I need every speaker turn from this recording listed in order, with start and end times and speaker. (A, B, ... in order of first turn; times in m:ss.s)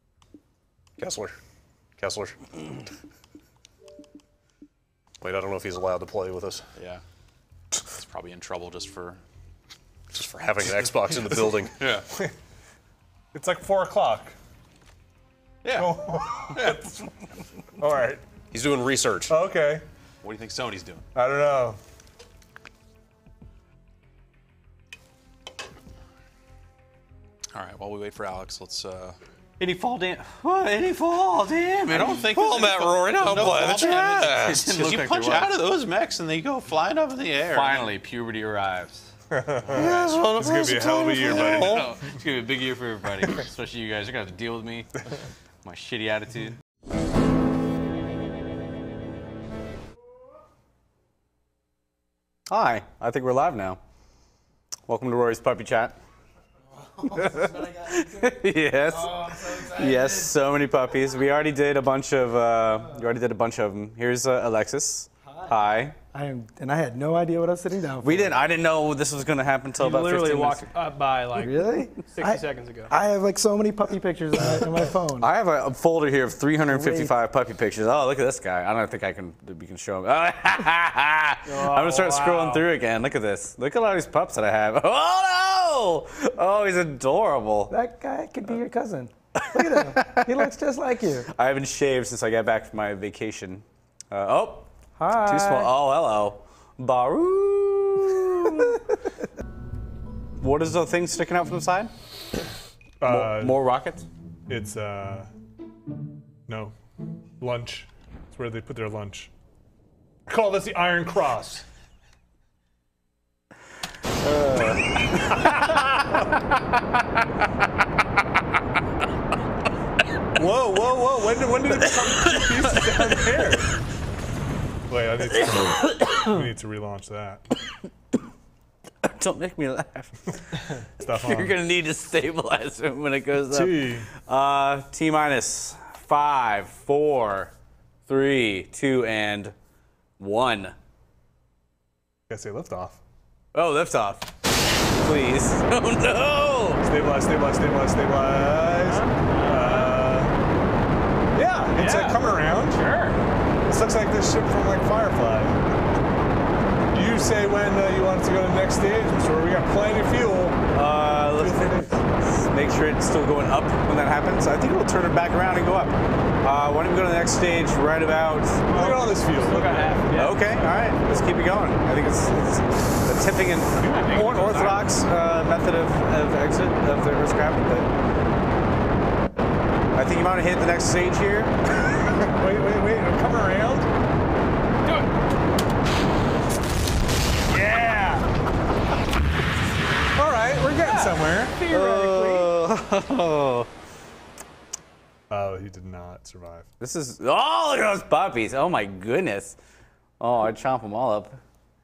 0:01.0-0:01.4 A
0:02.0-0:02.4 A
0:05.2-0:06.7 A
0:06.8-0:07.0 B
0:07.9-0:09.2 B
0:10.1-0:12.0 A
0:10.7-0:12.0 B
0:13.3-0:14.4 C
0:15.6-0:16.9 B
0:15.8-0:16.9 C
0:17.8-0:18.2 C
0:18.5-0:19.4 A
0:19.3-0:19.8 C
0:20.2-0:21.0 B
0:21.2-0:21.8 C
0:27.5-0:29.2 B
0:29.6-0:35.7 D
0:31.9-0:37.9 B
0:33.3-0:33.7 A
0:37.4-0:39.1 D
0:39.3-0:41.9 C
0:39.7-0:40.3 D
0:40.1-0:41.9 A
0:41.2-0:45.1 D
0:45.6-0:46.6 D
0:52.5-0:53.8 D
0:54.9-0:56.0 D
0:57.0-1:06.0 D
1:06.1-1:08.4 E
1:08.0-1:10.7 D
1:09.8-1:12.9 F
1:11.3-1:15.3 E
1:15.2-1:27.8 D
1:16.7-1:17.1 E
1:21.4-1:22.6 F
1:27.7-1:31.3 E
1:29.4-1:30.5 D
1:31.3-1:38.9 D
1:35.0-1:35.7 E
1:40.4-1:41.9 D
1:43.0-1:43.6 C
1:43.1-1:44.1 D
1:44.5-1:45.3 C
1:46.5-1:46.8 C
1:47.4-1:49.3 C
1:50.3-1:51.7 C
1:54.2-1:55.5 D
2:00.4-2:03.7 C
2:01.7-2:03.4 D
2:04.9-2:07.4 C
2:05.5-2:06.2 D
2:09.0-2:17.5 D
2:11.0-2:11.6 C
2:13.5-2:14.1 C
2:18.1-2:19.5 D
2:20.2-2:20.8 D
2:22.3-2:23.0 C
2:23.5-2:24.3 D
2:24.9-2:26.8 D
2:26.8-2:30.3 C
2:28.8-2:30.1 F
2:31.3-2:32.8 C
2:31.7-2:33.2 F
2:33.7-2:35.6 C
2:36.9-2:40.6 C
2:40.7-2:49.1 D
2:41.4-2:42.0 C
2:48.7-2:50.1 C
2:48.7-2:50.6 F
2:50.2-2:57.9 D
2:53.8-2:54.7 F
2:59.9-3:01.6 D
3:02.0-3:03.9 C
3:07.5-3:08.3 C
3:10.1-3:11.7 C
3:10.8-3:12.5 F
3:11.7-3:13.7 D
3:15.3-3:16.7 C
3:16.8-3:19.6 D
3:20.2-3:21.4 D